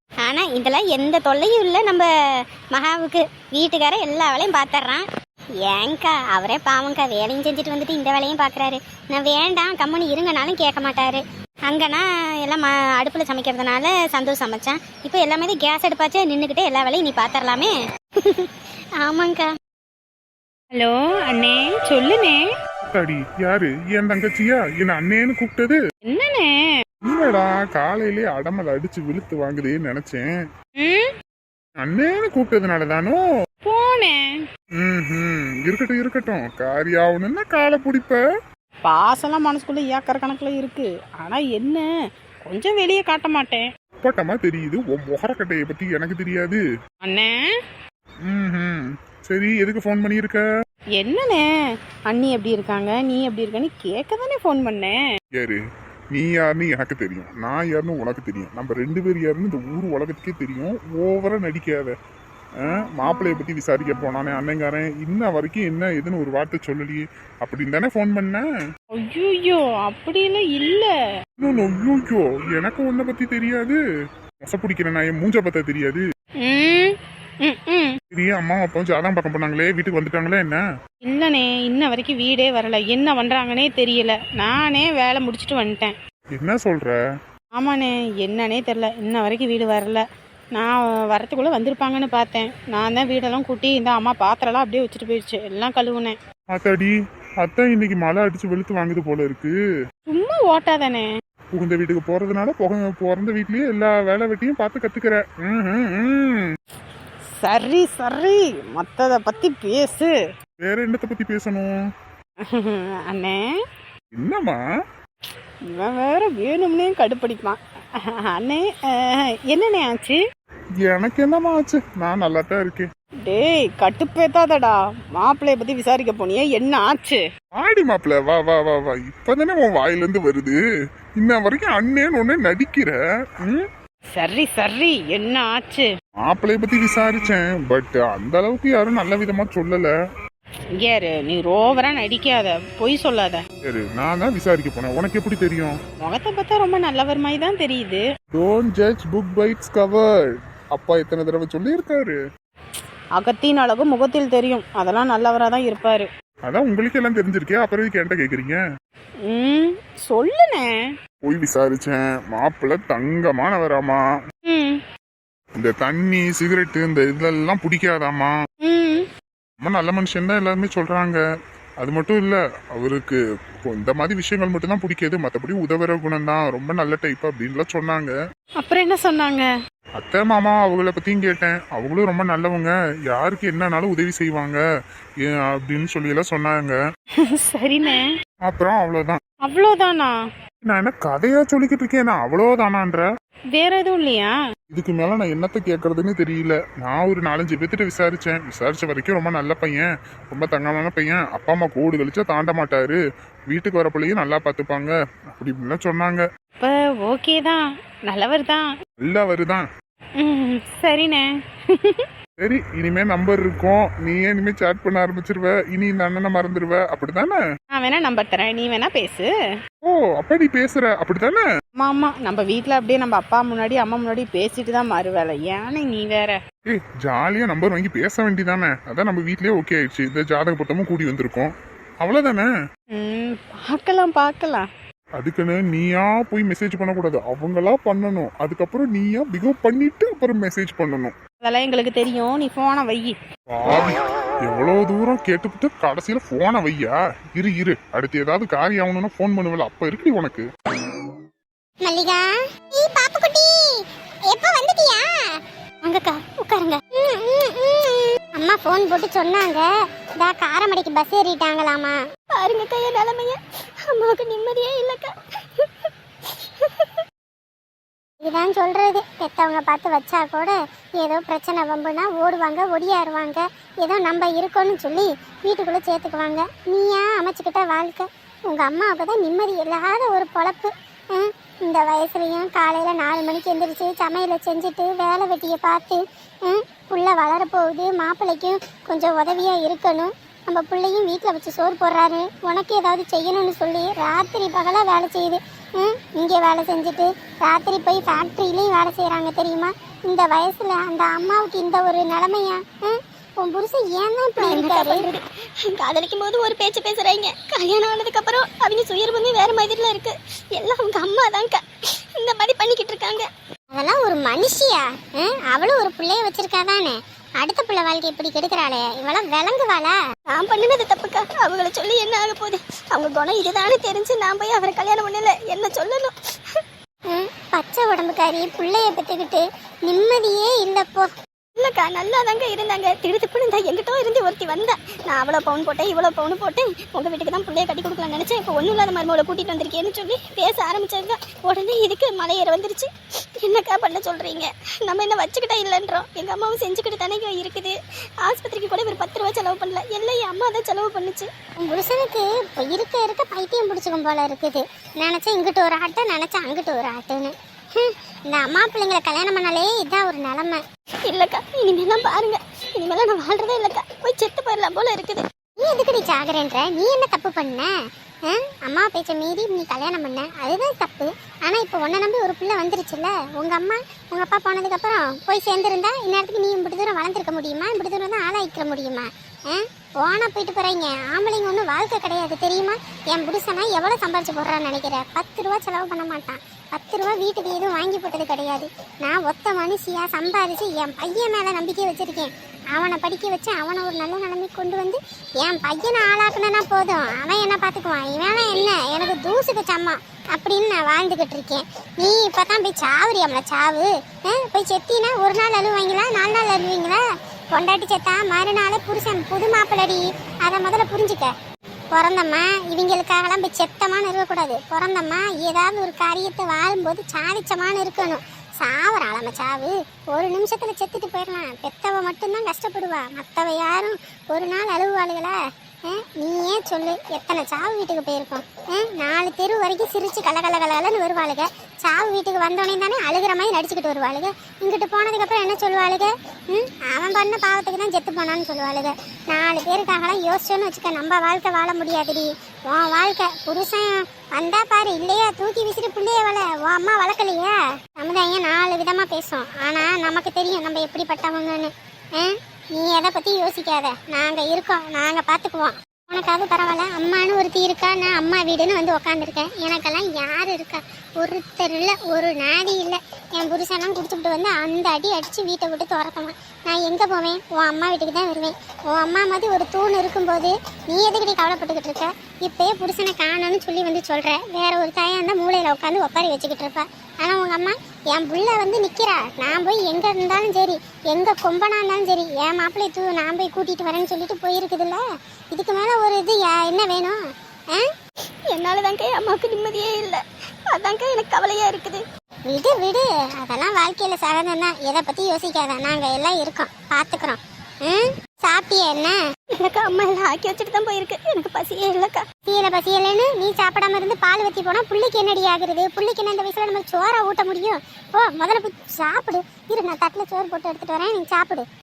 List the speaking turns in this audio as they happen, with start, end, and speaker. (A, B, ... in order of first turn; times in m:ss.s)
0:00.2-0:05.1 A
0:05.6-0:19.6 A
0:20.7-0:22.4 B
0:22.9-0:25.8 C
0:26.0-0:26.6 B
0:27.0-0:30.3 C
0:30.8-0:31.1 B
0:31.8-0:33.2 C
0:33.6-0:34.2 B
0:34.8-0:38.2 C
0:38.8-0:41.9 B
0:42.4-0:43.7 B
0:44.0-0:46.6 C
0:47.0-0:47.3 B
0:48.3-0:50.4 C
0:51.0-0:51.5 B
0:52.1-0:55.0 B
0:56.1-1:01.9 C
1:02.6-1:08.4 C
1:08.9-1:10.9 B
1:11.4-1:13.8 C
1:14.4-1:16.0 C
1:16.4-1:18.0 B
1:18.1-1:20.6 C
1:21.1-1:25.9 B
1:26.3-1:27.0 C
1:27.6-1:36.2 B
1:36.5-1:39.6 C
1:40.1-1:41.1 B
1:41.6-1:46.5 C
1:47.4-1:50.1 B
1:50.6-1:51.7 C
1:52.4-1:53.4 B
1:54.1-1:54.6 C
1:55.7-2:00.2 B
2:00.8-2:02.9 C
2:03.2-2:07.2 B
2:07.6-2:10.6 C
2:11.2-2:13.7 C
2:14.1-2:15.9 B
2:16.2-2:19.9 C
2:20.8-2:23.4 B
2:23.6-2:25.8 C
2:26.0-2:28.0 B
2:28.3-2:30.1 C
2:30.7-2:32.2 C
2:33.2-2:36.1 B
2:36.4-2:38.6 C
2:39.2-2:40.8 B
2:41.2-2:44.0 C
2:44.5-2:44.8 B
2:45.6-2:48.3 C
2:48.6-2:49.1 B
2:49.6-2:51.2 C
2:51.8-2:58.1 C
2:58.6-2:59.5 B
3:00.0-3:04.6 C
3:05.2-3:06.8 C
3:07.2-3:08.0 B
3:08.5-3:09.2 C
3:09.4-3:10.1 B
3:10.6-3:13.1 C
3:13.5-3:14.4 B
3:14.7-3:23.0 C
3:23.5-3:26.2 C
3:26.6-3:28.7 B
3:29.0-3:29.7 C
3:30.2-3:32.1 B
3:32.4-3:37.4 C
3:37.7-3:39.3 B
3:39.8-3:41.4 C
3:41.8-3:46.4 B
3:46.7-3:52.5 C
3:52.9-3:54.7 B
3:55.2-4:01.2 C
4:01.4-4:03.2 B
4:03.5-4:10.4 C
4:11.8-4:22.0 D
4:22.3-4:27.0 E
4:28.2-5:05.1 D
5:04.4-5:05.2 E
5:05.8-5:11.6 E
5:12.2-5:13.3 E
5:13.7-5:19.9 D
5:20.3-5:26.6 E
5:27.1-5:31.1 D
5:31.6-5:42.9 E
5:43.4-5:51.3 E
5:51.6-6:00.6 D
6:01.1-6:05.2 E
6:05.6-6:07.7 D
6:08.3-6:51.3 D
6:51.9-7:05.4 D
7:05.9-8:07.2 D
8:08.5-8:12.0 E
8:12.4-8:19.2 D
8:19.6-8:22.2 E
8:22.4-8:31.7 D